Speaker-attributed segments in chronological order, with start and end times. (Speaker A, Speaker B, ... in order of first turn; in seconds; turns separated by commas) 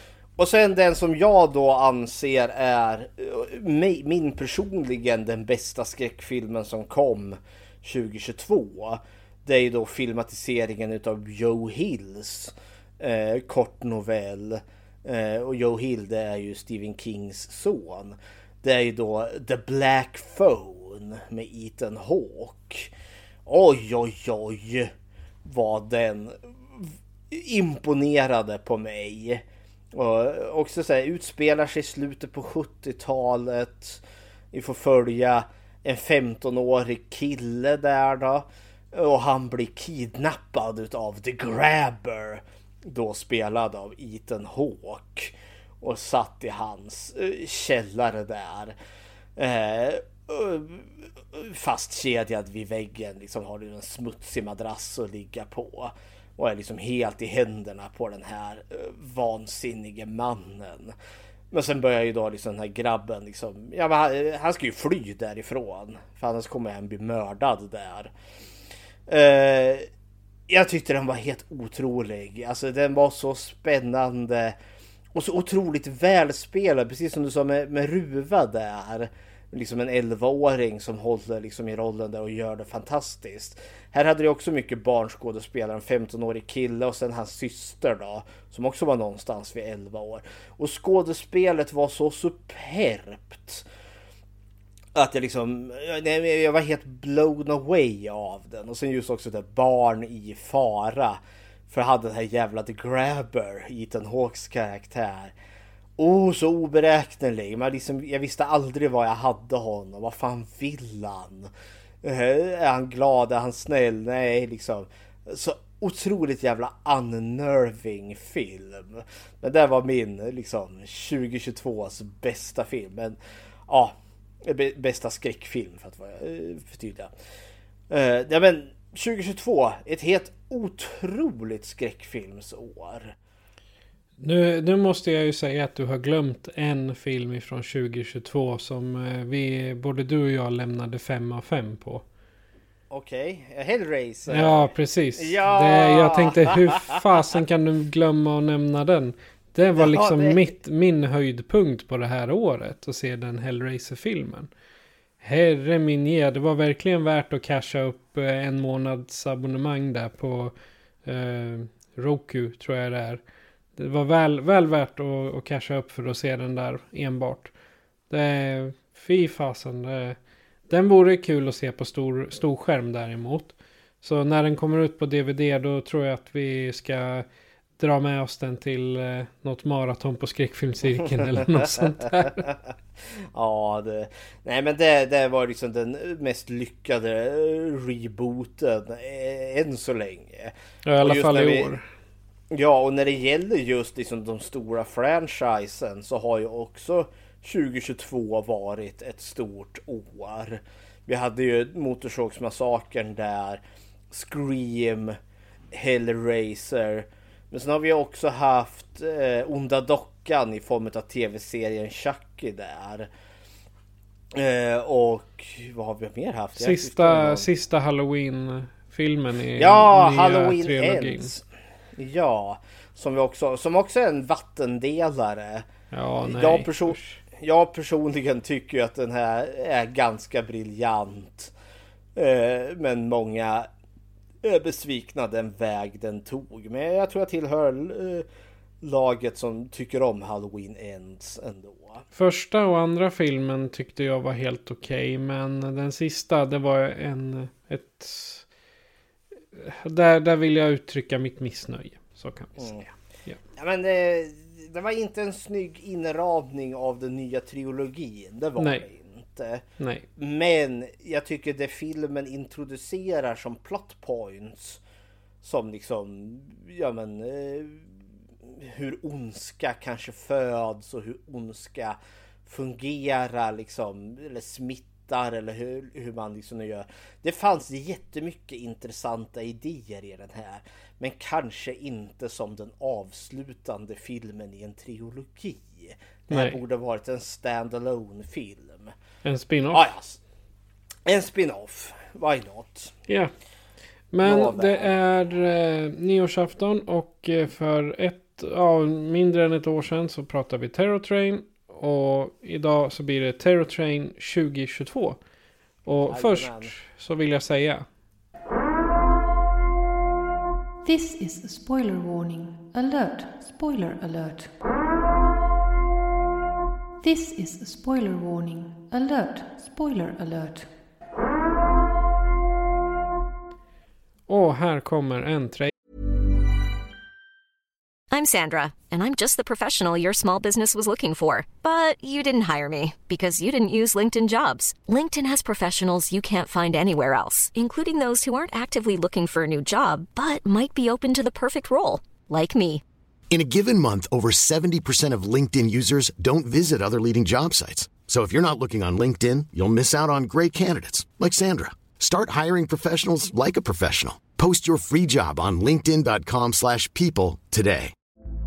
Speaker A: 0.3-22.9, Speaker A: 23.4-24.9, Speaker A: 25.4-48.8, Speaker A: 49.4-61.0, Speaker A: 61.5-68.1, Speaker A: 69.1-69.9, Speaker A: 70.5-74.6, Speaker A: 75.1-93.7, Speaker A: 94.9-105.3, Speaker A: 106.0-127.1, Speaker A: 127.9-133.2, Speaker B: 134.2-142.0, Speaker A: 142.9-147.0, Speaker B: 144.3-154.5, Speaker A: 149.8-150.5, Speaker B: 155.2-160.5, Speaker B: 161.0-163.2, Speaker B: 163.8-167.5, Speaker B: 168.1-170.2, Speaker B: 170.7-177.2, Speaker B: 177.8-182.5, Speaker A: 181.1-182.6, Speaker A: 183.1-191.7, Speaker B: 190.8-191.8, Speaker A: 192.5-205.2, Speaker A: 205.7-213.1, Speaker A: 214.3-217.4, Speaker B: 216.6-221.3, Speaker A: 219.6-225.7, Speaker B: 225.9-227.2, Speaker A: 226.2-231.5, Speaker A: 232.1-233.7, Speaker A: 234.4-238.3, Speaker A: 238.8-242.0, Speaker B: 242.1-248.4, Speaker B: 249.5-252.7, Speaker A: 252.6-252.9, Speaker A: 253.5-259.6, Speaker B: 258.6-258.8, Speaker B: 259.8-260.1, Speaker A: 260.1-264.8, Speaker A: 265.4-267.9, Speaker A: 268.4-288.9, Speaker B: 286.3-286.6, Speaker B: 289.2-289.9, Speaker A: 289.7-290.2, Speaker A: 291.1-292.9, Speaker B: 294.1-305.2, Speaker A: 294.2-294.9, Speaker B: 305.8-307.9, Speaker A: 306.1-306.7, Speaker C: 310.8-314.6, Speaker C: 317.0-320.8, Speaker B: 324.3-325.7, Speaker D: 328.1-342.8, Speaker E: 343.3-357.9